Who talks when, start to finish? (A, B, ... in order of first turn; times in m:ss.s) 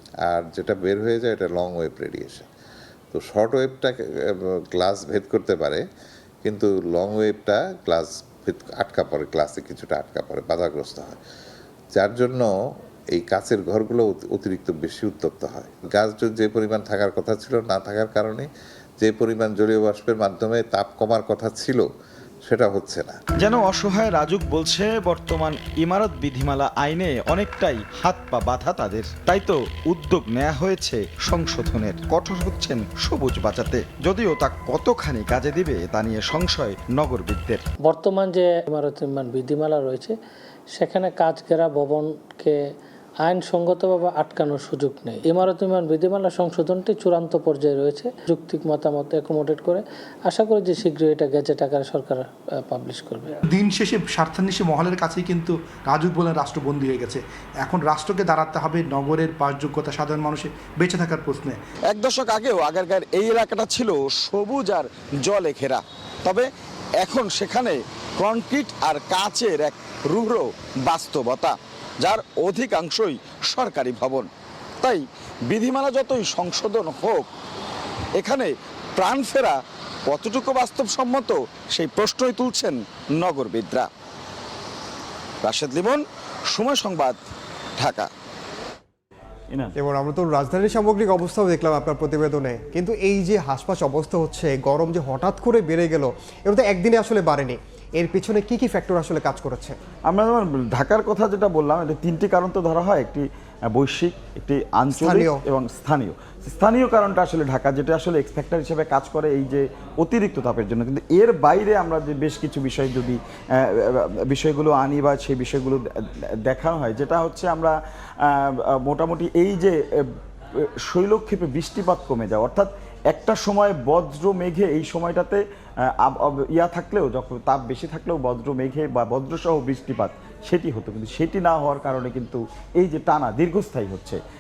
0:00.3-0:02.5 A
0:03.1-0:05.8 A
0:06.4-0:11.2 A
0:12.0-0:12.5 A
0:13.1-0:18.5 A
0:19.0-0:21.8 A
0:22.5-0:23.2 A
0:23.4-0:37.6 B
0:37.9-0:40.1 C
0:40.7-0:42.6 C
0:43.2-0:53.4 C
0:53.5-1:01.6 D
1:01.9-1:06.5 B
1:07.0-1:14.3 B
1:14.8-1:17.3 B
1:18.2-1:19.6 B
1:20.1-1:23.9 B
1:25.4-1:27.2 B
1:27.8-1:28.1 B
1:29.8-1:39.8 E
1:40.1-1:55.8 B
1:44.9-1:45.4 E
1:56.5-2:00.1 B
2:00.6-2:14.2 B